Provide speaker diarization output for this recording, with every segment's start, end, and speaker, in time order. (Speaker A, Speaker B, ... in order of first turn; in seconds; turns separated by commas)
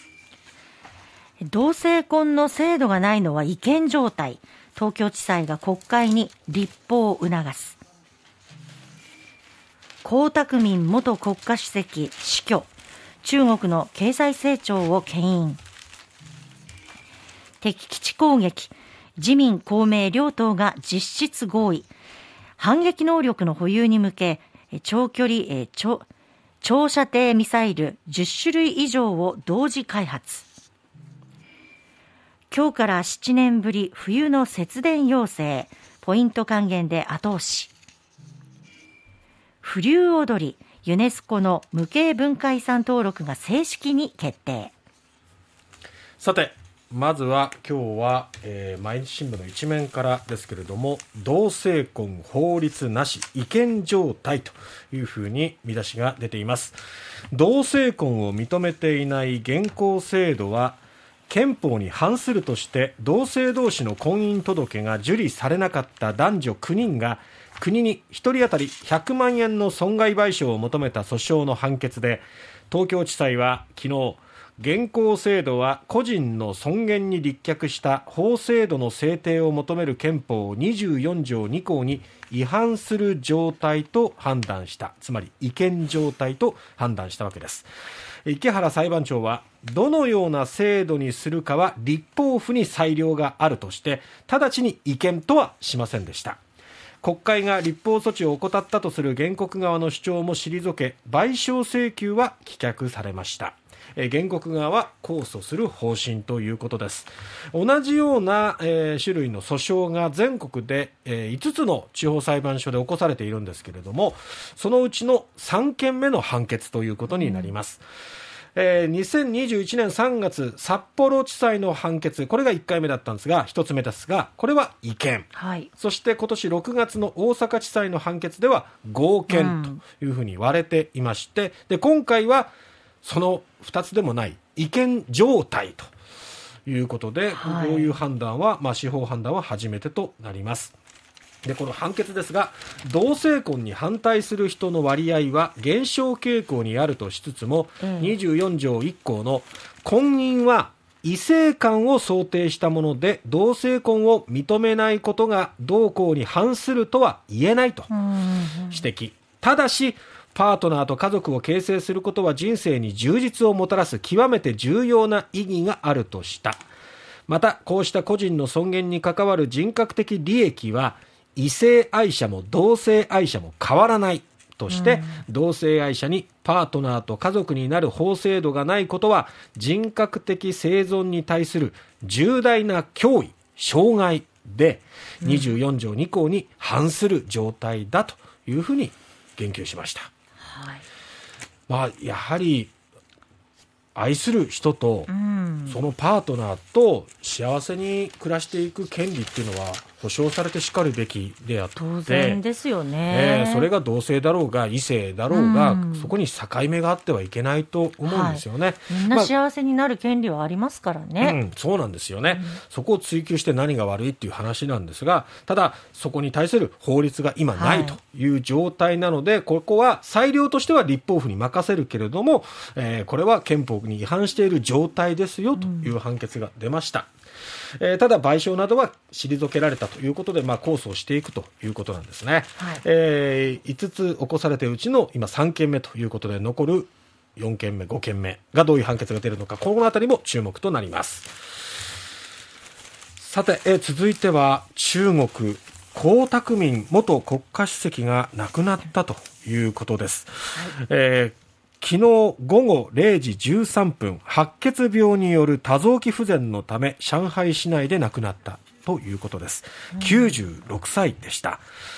Speaker A: 1.4-7.8, Speaker A: 10.0-12.7, Speaker A: 13.2-15.6, Speaker A: 17.6-21.9, Speaker A: 22.6-26.1, Speaker A: 26.6-30.5, Speaker A: 32.5-37.7, Speaker A: 39.6-44.7, Speaker B: 46.2-56.8, Speaker B: 57.3-87.7, Speaker B: 88.2-96.4, Speaker B: 97.0-117.8, Speaker A: 117.2-117.5, Speaker B: 118.5-132.5, Speaker A: 125.3-125.7, Speaker A: 129.3-129.8, Speaker B: 133.0-135.9, Speaker B: 136.7-140.8, Speaker A: 137.3-138.0, Speaker B: 141.4-157.9, Speaker A: 147.8-148.2, Speaker A: 157.9-158.8, Speaker B: 158.7-166.6, Speaker B: 167.3-190.1, Speaker A: 174.7-175.2, Speaker A: 185.2-185.5, Speaker A: 190.4-190.8, Speaker B: 191.7-192.7, Speaker B: 193.9-195.1, Speaker A: 195.1-195.8, Speaker B: 195.7-202.4, Speaker A: 201.8-203.7, Speaker B: 203.1-209.3, Speaker A: 205.3-206.1, Speaker A: 208.0-211.4, Speaker B: 211.2-227.1, Speaker A: 217.6-218.0, Speaker A: 225.6-225.9, Speaker B: 227.8-241.3, Speaker B: 243.2-261.6, Speaker A: 259.9-260.3